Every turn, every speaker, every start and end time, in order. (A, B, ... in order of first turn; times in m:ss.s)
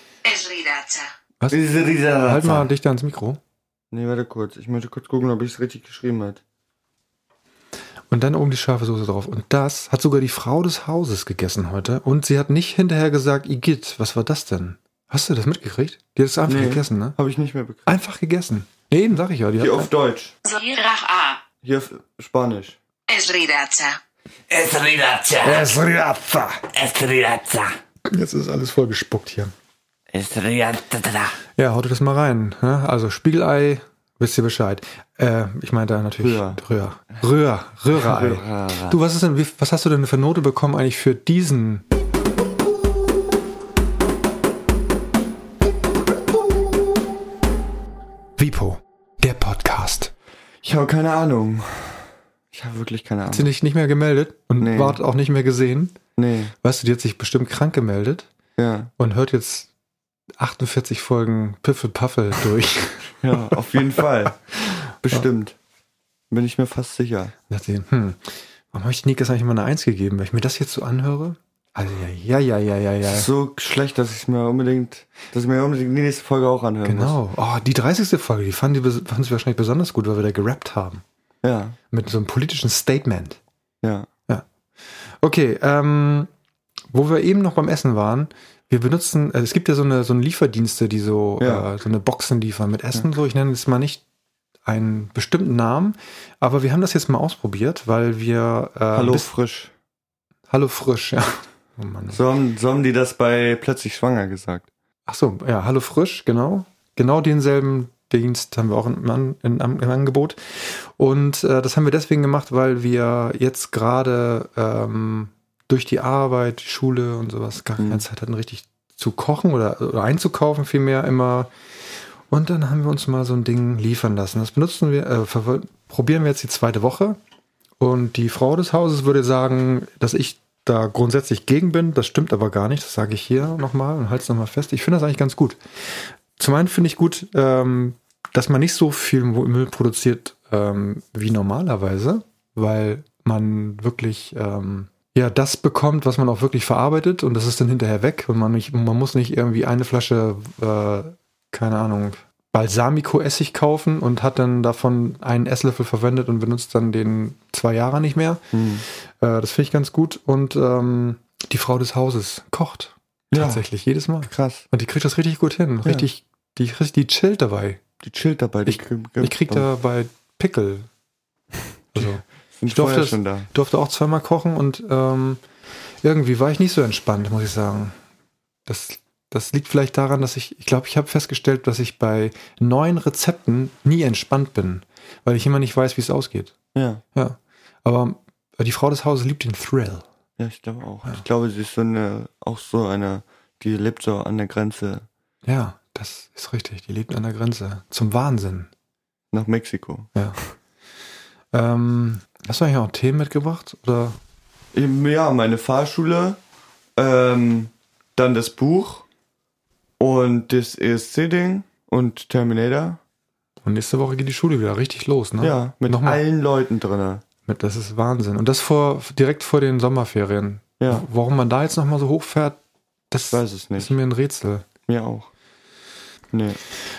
0:00.2-0:01.1 A
0:01.5-0:02.7 B
0:02.2-0:03.4 C
0:03.9-0:06.4 B
0:08.1-0:17.2 C
0:16.5-0:18.0 B
0:17.8-0:19.9 C
0:19.6-0:20.3 B
0:20.4-0:21.4 A
0:21.6-0:22.8 B
0:23.1-0:24.0 A
0:24.5-0:25.7 D
0:25.4-0:26.6 C
0:26.7-0:27.7 D
0:28.0-0:29.5 C
0:30.1-0:31.3 D
0:31.6-0:41.8 C
0:36.2-0:36.6 B
0:37.9-0:39.0 B
0:48.4-0:50.1 C
0:50.6-0:53.5 B
0:53.3-0:56.0 C
0:54.6-0:55.0 B
0:56.2-0:56.5 B
0:56.6-0:58.3 C
0:58.6-0:58.9 B
0:59.0-0:59.7 C
1:00.4-1:03.5 C
1:03.2-1:04.4 B
1:05.0-1:05.6 B
1:06.3-1:07.3 B
1:07.5-1:13.3 C
1:13.1-1:17.2 B
1:16.8-1:21.0 C
1:21.4-1:21.8 B
1:21.9-1:23.4 C
1:23.8-1:24.1 B
1:24.3-1:26.3 C
1:26.9-1:34.0 C
1:31.4-1:31.6 B
1:34.6-1:39.3 C
1:38.9-1:39.7 B
1:40.5-1:42.2 C
1:42.1-1:44.7 B
1:45.1-2:01.5 C
1:57.8-1:58.0 B
2:02.3-2:07.2 C
2:07.8-2:38.5 C
2:38.5-2:38.8 B
2:39.2-2:47.8 C
2:43.3-2:43.6 B
2:44.2-2:44.6 B
2:48.0-2:49.7 B
2:48.6-2:50.9 C
2:51.9-2:55.4 C
2:51.9-2:53.5 B
2:56.0-2:58.0 C
2:58.6-3:06.5 C
3:06.7-3:07.0 B
3:07.1-3:10.0 C
3:10.4-3:15.1 B
3:15.4-3:18.7 C
3:19.3-3:20.1 B
3:20.1-3:20.4 C
3:21.5-3:24.2 C
3:24.7-3:26.4 B
3:27.0-3:29.0 B
3:30.0-3:33.0 B
3:33.6-3:36.2 C
3:35.4-3:37.2 B
3:37.4-3:42.6 C
3:40.8-3:41.0 B
3:43.1-3:44.7 C
3:43.3-3:43.9 B
3:44.9-3:45.3 B
3:46.3-3:46.6 B